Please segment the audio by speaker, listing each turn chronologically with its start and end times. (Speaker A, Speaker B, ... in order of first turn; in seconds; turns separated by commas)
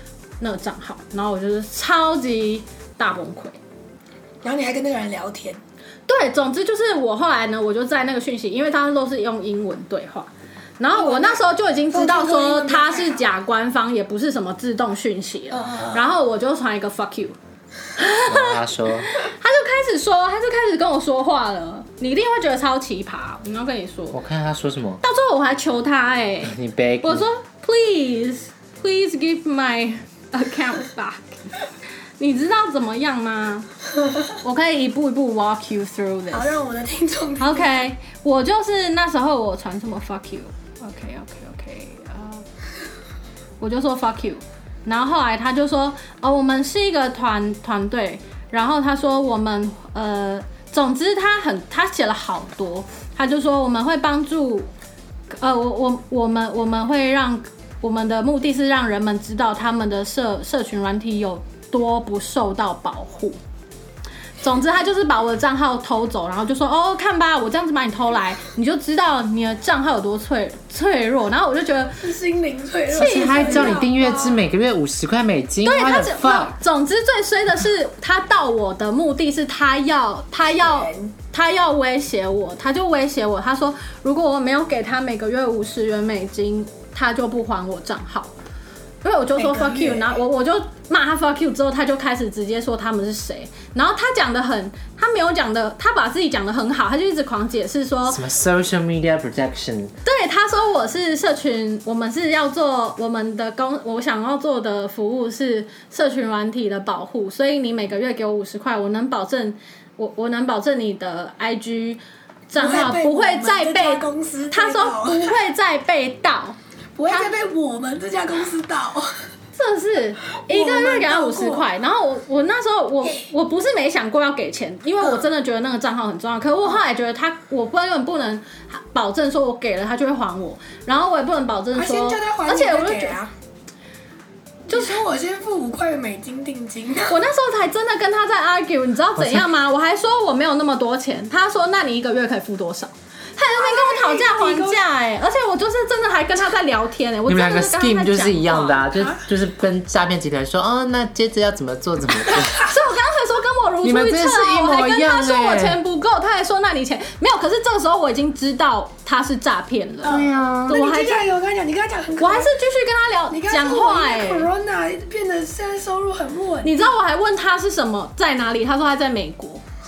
Speaker A: 0.4-3.5, Speaker B: 4.4-5.6, Speaker A: 6.1-17.4, Speaker B: 10.9-13.2, Speaker B: 15.5-16.0, Speaker A: 17.9-24.2, Speaker C: 18.2-19.1, Speaker C: 24.1-25.0, Speaker A: 25.0-31.3, Speaker C: 26.4-27.2, Speaker A: 32.2-33.7, Speaker A: 34.4-36.5, Speaker B: 36.3-37.9, Speaker A: 37.4-42.4, Speaker A: 43.6-54.7, Speaker A: 55.3-63.4, Speaker A: 64.4-72.1, Speaker B: 72.0-74.4, Speaker A: 72.9-74.0, Speaker C: 72.9-76.5, Speaker A: 75.6-88.3, Speaker B: 80.5-81.1, Speaker A: 89.0-98.2, Speaker B: 89.3-90.2, Speaker C: 98.1-99.9, Speaker A: 100.0-116.5, Speaker B: 112.5-115.4, Speaker B: 117.0-119.1, Speaker A: 119.5-133.2, Speaker B: 120.5-121.7, Speaker B: 131.8-133.3, Speaker A: 134.7-135.0, Speaker B: 134.7-137.2, Speaker A: 137.1-148.9, Speaker B: 143.5-144.8, Speaker C: 147.3-152.6, Speaker A: 152.5-161.2, Speaker C: 153.8-155.8, Speaker B: 160.0-162.5, Speaker C: 160.0-160.8, Speaker A: 162.2-164.5, Speaker B: 163.3-166.8, Speaker A: 166.6-169.6